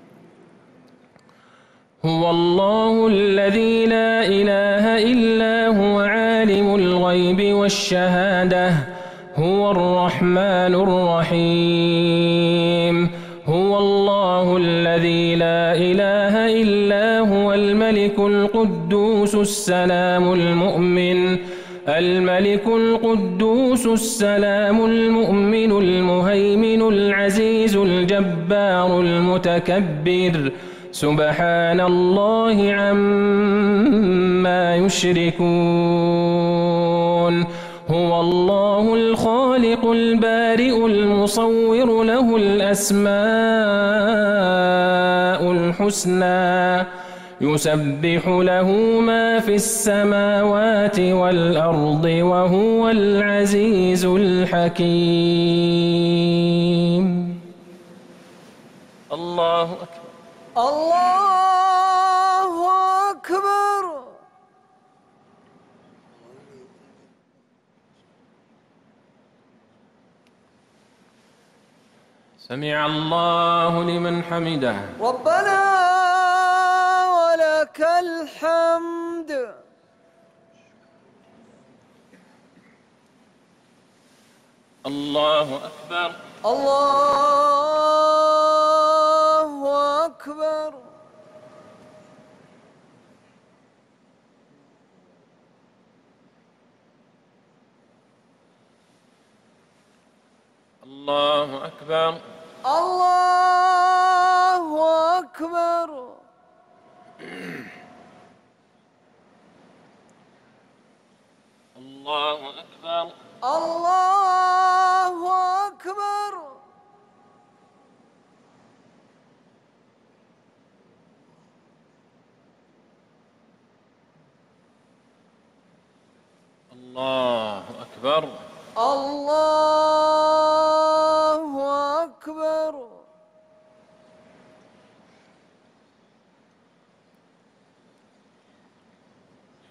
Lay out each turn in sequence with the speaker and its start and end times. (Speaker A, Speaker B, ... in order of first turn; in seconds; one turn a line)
Speaker A: 2.0-57.5
Speaker A: 59.1-60.1
Speaker B: 60.5-64.2
Speaker A: 72.4-75.0
Speaker B: 75.0-79.6
Speaker A: 84.8-86.2
Speaker B: 86.4-91.0
Speaker A: 100.8-102.2
Speaker B: 102.6-106.2
Speaker A: 111.7-113.2
Speaker B: 113.4-116.7
Speaker A: 126.7-128.5
Speaker B: 128.8-133.1